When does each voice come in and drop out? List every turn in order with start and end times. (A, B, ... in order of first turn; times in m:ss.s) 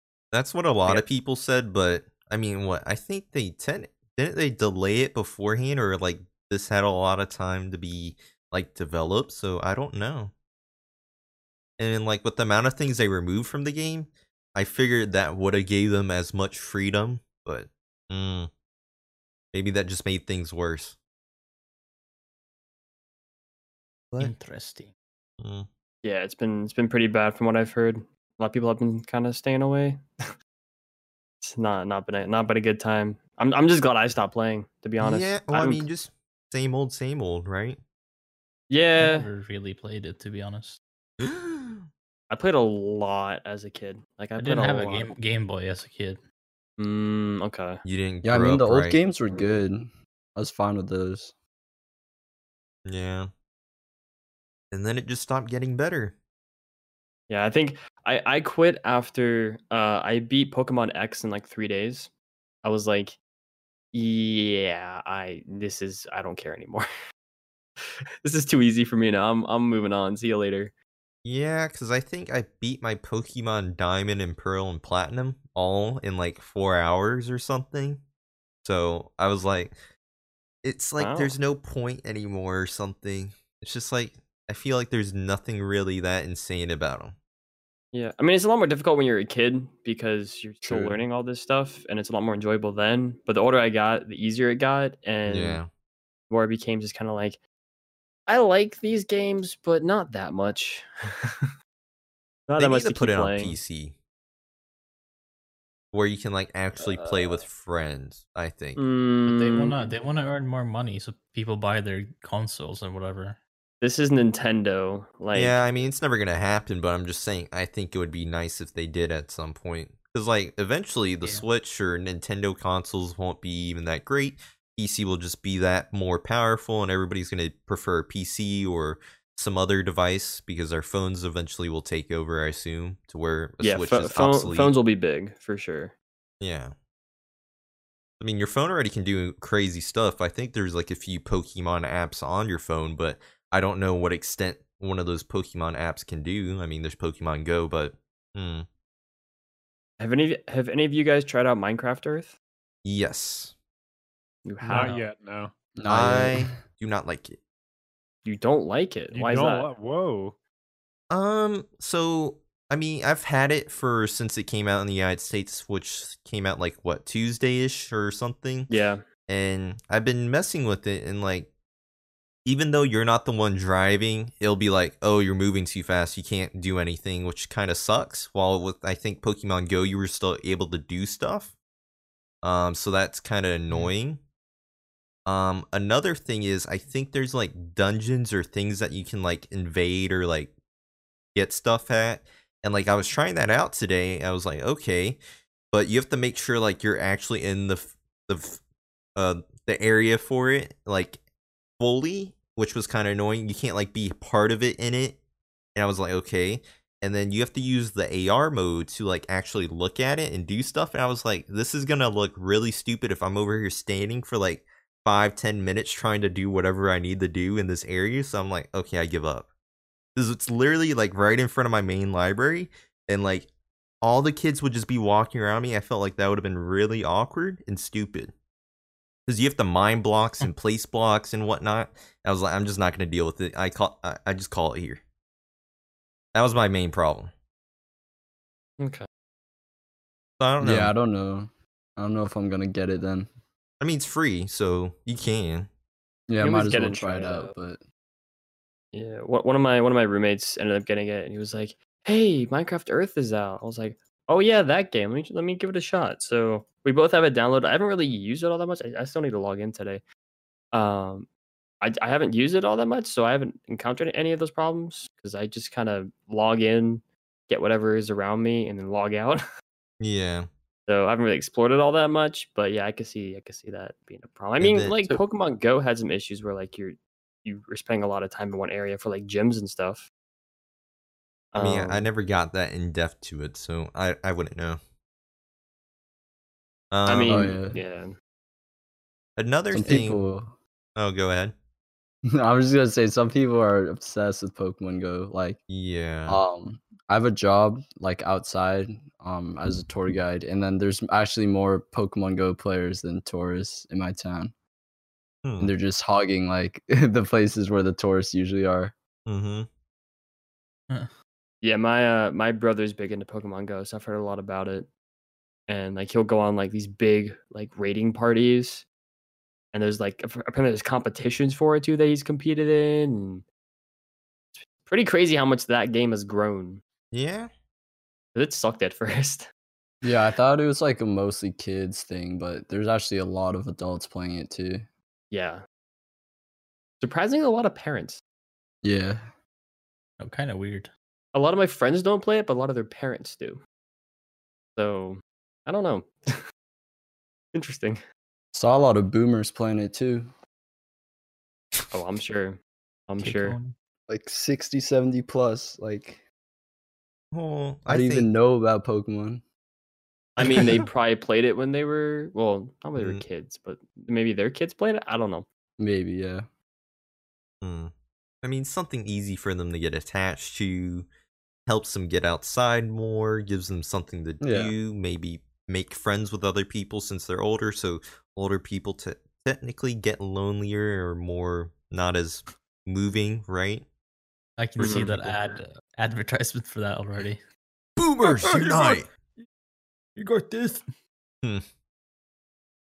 0:00.3-0:10.3 A
0:11.8-0:18.5 A
0:19.5-0:21.0 A
0:24.2-0:24.9 B
0:25.4-0:25.7 A
0:26.0-0:30.0 C
0:31.4-0:35.9 C
0:35.0-0:37.8 A
0:38.7-0:39.3 C
0:39.0-0:40.8 B
0:41.2-0:41.9 A
0:42.3-0:45.1 C
0:44.4-0:46.2 B
0:46.8-0:47.8 C
0:47.8-0:49.0 A
0:48.2-0:51.3 D
0:52.9-0:53.3 A
0:54.7-0:56.1 A
0:57.3-1:02.1 C
1:02.6-1:03.2 C
1:03.9-1:06.9 C
1:08.2-1:10.7 C
1:11.2-1:18.0 A
1:18.6-1:19.8 A
1:20.6-1:27.1 A
1:21.0-1:21.4 C
1:27.9-1:35.6 C
1:35.3-1:35.7 A
1:36.3-1:37.4 C
1:38.3-1:41.5 C
1:42.5-1:43.6 C
1:42.6-1:44.0 A
1:45.9-1:48.8 A
1:46.8-1:47.4 C
1:48.8-1:49.8 C
1:49.2-1:53.4 B
1:53.8-1:55.6 C
1:55.3-2:14.8 A
2:13.6-2:15.9 C
2:16.4-2:16.7 A
2:18.2-2:28.7 A
2:30.0-2:32.4 C
2:32.8-2:33.5 A
2:34.4-2:35.0 C
2:34.6-2:35.5 E
2:34.7-2:35.0 B
2:35.8-2:36.6 D
2:35.9-2:37.4 A
2:38.2-2:39.7 C
2:39.1-2:40.4 E
2:41.1-2:48.7 A
2:48.7-2:49.0 C
2:49.3-2:51.5 A
2:52.4-3:01.5 A
3:02.4-3:04.2 A
3:05.3-3:10.5 A
3:11.4-3:15.2 A
3:15.7-3:18.6 A
3:19.2-3:21.2 A
3:21.8-3:25.2 A
3:25.8-3:39.5 A
3:40.2-3:43.5 A
3:44.0-3:48.3 A
3:49.3-3:55.0 A
3:56.3-3:57.3 A
3:58.8-3:59.1 C
4:00.4-4:01.0 A
4:00.6-4:03.3 D
4:03.8-4:05.7 A
4:06.3-4:07.8 D
4:06.4-4:07.5 C
4:08.9-4:20.0 C
4:20.7-4:21.3 C
4:21.8-4:29.4 C
4:30.0-4:30.5 A
4:30.9-4:40.1 C
4:34.6-4:35.0 A
4:41.5-4:42.1 C
4:41.6-4:44.8 A
4:46.9-4:47.6 A
4:47.1-4:48.1 C
4:47.3-4:47.8 D
4:49.4-4:50.3 A
4:49.7-4:50.6 D
4:51.0-4:51.6 A
4:52.3-4:55.6 D
4:55.7-4:56.4 A
4:56.3-5:04.5 D
5:05.4-5:05.7 A
5:05.6-5:08.9 D
5:09.3-5:09.7 A
5:11.6-5:14.9 C
5:15.7-5:18.9 C
5:19.7-5:23.4 C
5:24.6-5:26.8 C
5:27.1-5:27.5 A
5:28.4-5:29.5 C
5:30.0-5:34.9 D
5:35.3-5:35.6 C
5:37.0-5:38.2 C
5:38.8-5:39.3 D
5:40.2-5:40.9 B
5:41.3-5:43.6 C
5:44.8-5:46.4 C
5:47.5-5:48.0 C
5:48.5-5:50.3 D
5:51.9-5:53.6 C
5:53.2-5:53.8 B
5:54.1-5:56.2 D
5:57.3-5:58.3 A
5:57.9-5:59.4 D
6:00.4-6:05.5 C
6:03.0-6:03.2 A
6:05.8-6:06.5 D
6:07.6-6:11.1 A
6:11.7-6:23.9 A
6:14.4-6:14.7 D
6:24.6-6:27.4 B
6:24.8-6:25.3 A
6:24.8-6:25.2 C
6:28.0-6:29.1 A